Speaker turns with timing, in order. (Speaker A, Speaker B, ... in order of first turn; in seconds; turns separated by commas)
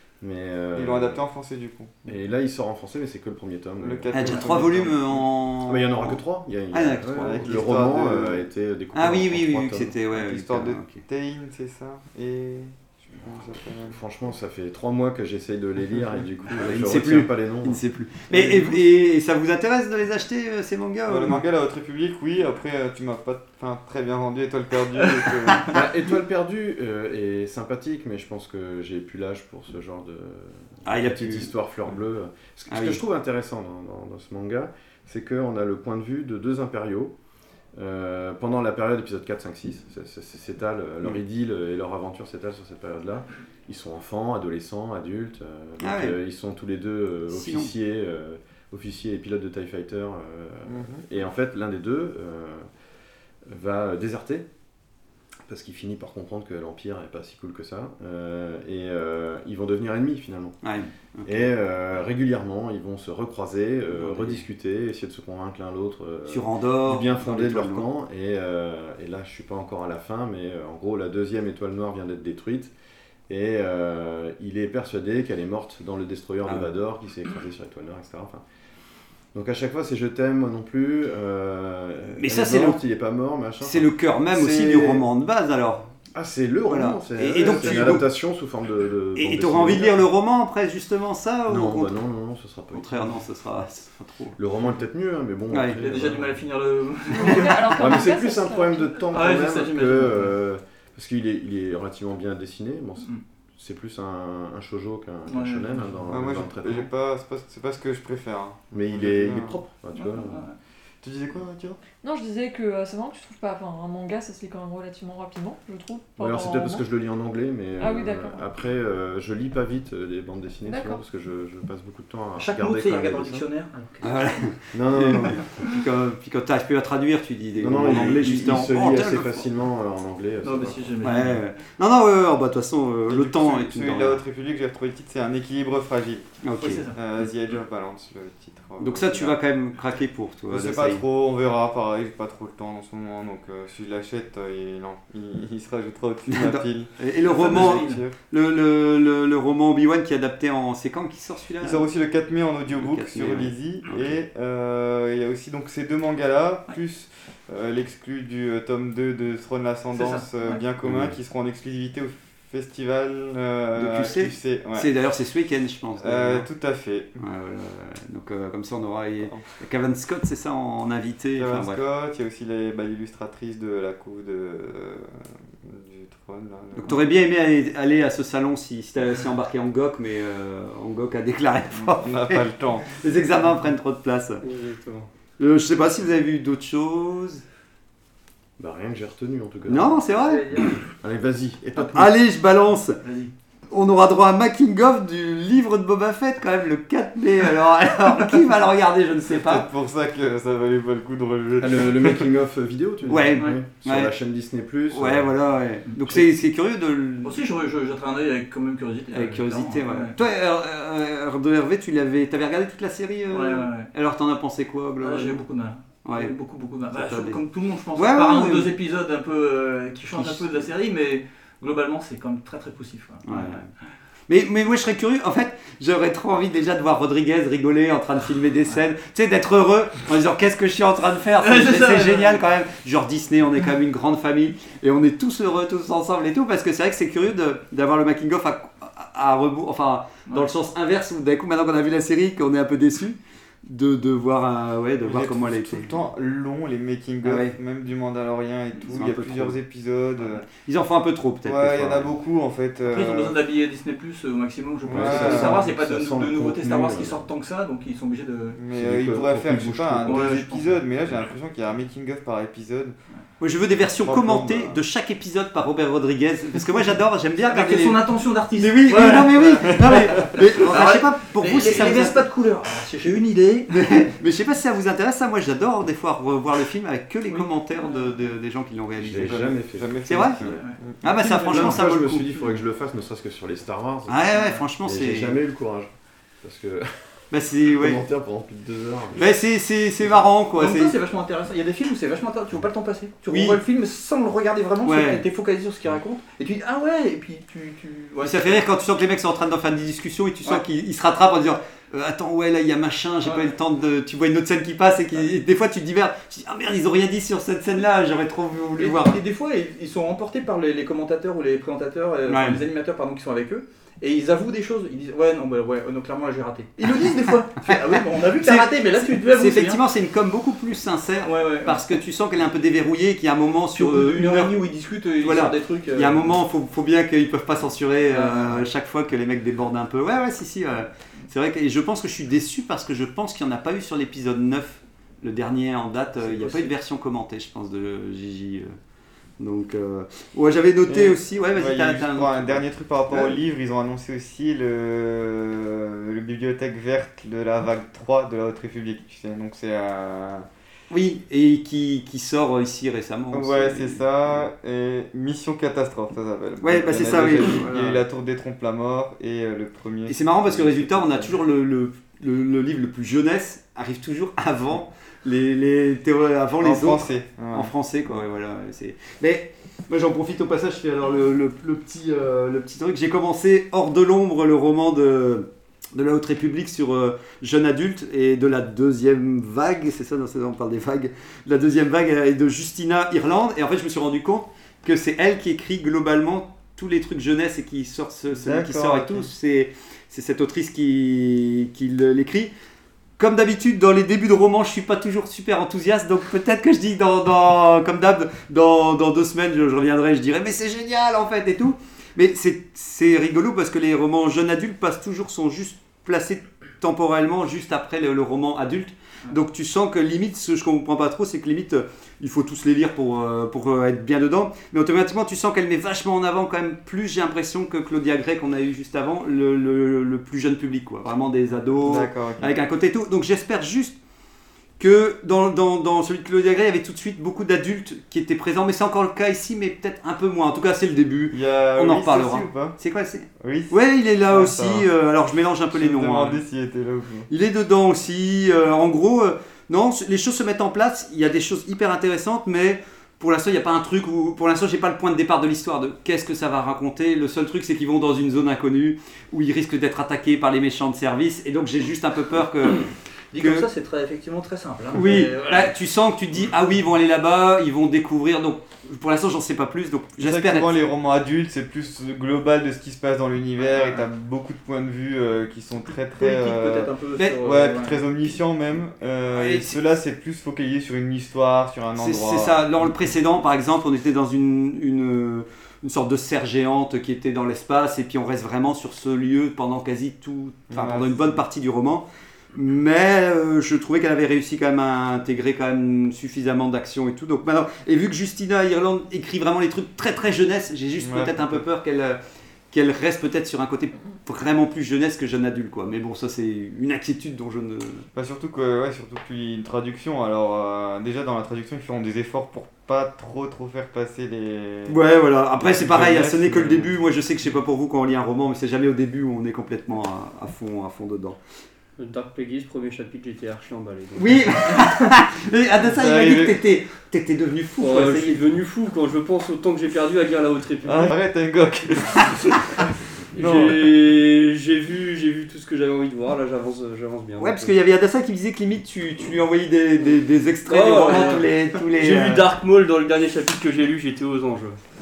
Speaker A: 0.2-1.2, Speaker B: 0.7-1.9, Speaker A: 2.0-4.9, Speaker B: 3.8-4.9, Speaker C: 4.1-6.2, Speaker A: 5.6-9.9, Speaker C: 6.7-7.6, Speaker B: 7.2-8.4, Speaker C: 8.9-11.0, Speaker B: 10.1-13.9, Speaker A: 13.8-17.8, Speaker C: 16.6-21.4, Speaker B: 18.3-18.7, Speaker B: 21.1-25.8, Speaker A: 25.7-37.1, Speaker C: 30.8-31.5, Speaker C: 32.7-33.0, Speaker A: 37.8-52.6, Speaker C: 45.8-46.1, Speaker C: 47.3-47.7, Speaker B: 50.7-51.0, Speaker A: 53.5-54.5, Speaker A: 55.5-60.6, Speaker C: 60.6-61.5, Speaker A: 61.2-72.7, Speaker C: 63.9-64.4, Speaker C: 66.3-67.8, Speaker A: 73.3-78.4, Speaker A: 79.3-83.9, Speaker C: 82.2-82.8, Speaker C: 83.6-85.8, Speaker B: 84.3-85.0, Speaker A: 86.1-90.1, Speaker C: 86.7-88.1, Speaker B: 87.3-88.0, Speaker C: 89.2-92.0, Speaker A: 91.5-93.2, Speaker C: 92.7-94.4, Speaker A: 94.4-96.4, Speaker C: 95.5-95.8, Speaker D: 95.8-97.8, Speaker E: 97.1-99.0, Speaker A: 97.3-106.9, Speaker D: 99.1-100.3, Speaker D: 105.3-105.8, Speaker B: 106.1-109.6, Speaker A: 108.7-110.5, Speaker D: 109.9-110.5, Speaker B: 111.0-111.8, Speaker E: 112.0-116.8, Speaker A: 116.2-123.5, Speaker E: 117.8-118.4, Speaker E: 120.7-121.0, Speaker D: 122.4-124.0, Speaker C: 124.0-129.4, Speaker A: 124.7-125.4, Speaker A: 127.6-131.0, Speaker D: 130.4-131.4, Speaker C: 131.0-134.2, Speaker B: 133.1-136.2, Speaker C: 136.4-136.9, Speaker D: 136.6-137.0, Speaker B: 136.9-139.4, Speaker C: 138.8-141.0, Speaker B: 140.5-148.2, Speaker C: 146.3-151.9, Speaker D: 147.2-148.0, Speaker B: 151.6-164.9, Speaker C: 152.7-154.1, Speaker D: 159.9-160.6, Speaker C: 160.8-161.1, Speaker C: 163.8-166.5, Speaker B: 166.0-167.2, Speaker C: 167.2-171.8, Speaker B: 171.4-175.1, Speaker B: 175.6-177.0, Speaker C: 176.8-184.4, Speaker B: 182.0-182.9, Speaker F: 184.4-185.1, Speaker C: 185.4-187.4, Speaker A: 188.6-190.0, Speaker C: 189.7-190.8, Speaker D: 190.2-190.8, Speaker A: 191.0-192.1, Speaker C: 191.8-193.0, Speaker D: 193.0-193.3, Speaker C: 193.7-199.7, Speaker B: 199.3-202.2, Speaker A: 201.6-205.3, Speaker C: 203.1-204.1, Speaker C: 204.9-207.4, Speaker D: 207.2-210.1, Speaker C: 209.1-215.4, Speaker D: 213.3-213.9, Speaker D: 215.0-223.7, Speaker C: 216.0-216.3, Speaker C: 216.9-217.4, Speaker C: 217.9-218.7, Speaker C: 220.1-220.5, Speaker C: 223.2-223.6, Speaker C: 224.3-246.0, Speaker D: 231.4-232.4, Speaker B: 245.0-250.4, Speaker C: 247.2-247.5, Speaker C: 248.9-249.6, Speaker C: 250.5-252.1, Speaker B: 251.4-253.3, Speaker D: 252.8-258.6, Speaker A: 254.9-257.2, Speaker B: 254.9-255.6, Speaker B: 258.6-262.9, Speaker A: 258.7-260.3, Speaker D: 260.0-260.8, Speaker C: 263.4-268.0, Speaker B: 263.8-264.8, Speaker D: 267.4-273.8, Speaker C: 268.5-272.2, Speaker C: 273.7-279.5, Speaker D: 277.2-278.2, Speaker A: 279.0-280.6, Speaker B: 279.1-281.0, Speaker C: 280.1-280.4, Speaker D: 280.5-281.8, Speaker C: 281.0-282.2, Speaker A: 281.4-285.9, Speaker C: 284.1-285.4, Speaker D: 284.3-284.6, Speaker A: 286.4-286.9, Speaker C: 287.3-288.0, Speaker A: 287.6-289.3, Speaker C: 289.1-290.9, Speaker D: 290.6-298.6, Speaker C: 293.3-293.6, Speaker C: 294.8-295.2, Speaker C: 298.2-309.2, Speaker D: 303.2-303.5, Speaker D: 308.8-319.8, Speaker C: 312.3-312.6, Speaker C: 316.9-317.7, Speaker C: 318.4-324.6, Speaker D: 321.2-322.0, Speaker D: 323.7-326.3, Speaker C: 325.2-338.7, Speaker D: 328.1-328.7, Speaker D: 336.2-336.7, Speaker C: 339.4-343.4, Speaker B: 340.9-350.4, Speaker C: 350.9-354.4, Speaker B: 353.3-361.3, Speaker C: 356.6-358.0, Speaker C: 360.1-392.5, Speaker B: 366.6-367.7, Speaker B: 388.4-389.3, Speaker C: 393.2-423.9, Speaker B: 421.8-422.5, Speaker C: 424.8-436.4, Speaker B: 431.3-432.8, Speaker B: 433.4-434.9, Speaker B: 435.7-437.3, Speaker C: 437.3-453.7, Speaker D: 453.3-455.7, Speaker C: 454.9-460.8, Speaker B: 460.2-472.6, Speaker D: 466.2-468.0, Speaker C: 469.3-469.8, Speaker C: 471.9-492.2, Speaker B: 480.7-481.4, Speaker B: 491.0-491.6, Speaker C: 492.7-498.0, Speaker B: 498.1-505.0, Speaker C: 504.9-511.4, Speaker B: 505.6-506.9, Speaker F: 512.0-514.5, Speaker C: 514.1-518.4, Speaker B: 515.9-516.6, Speaker F: 517.8-521.2, Speaker B: 520.9-523.8, Speaker F: 523.3-527.7, Speaker C: 527.4-532.4, Speaker F: 530.6-534.8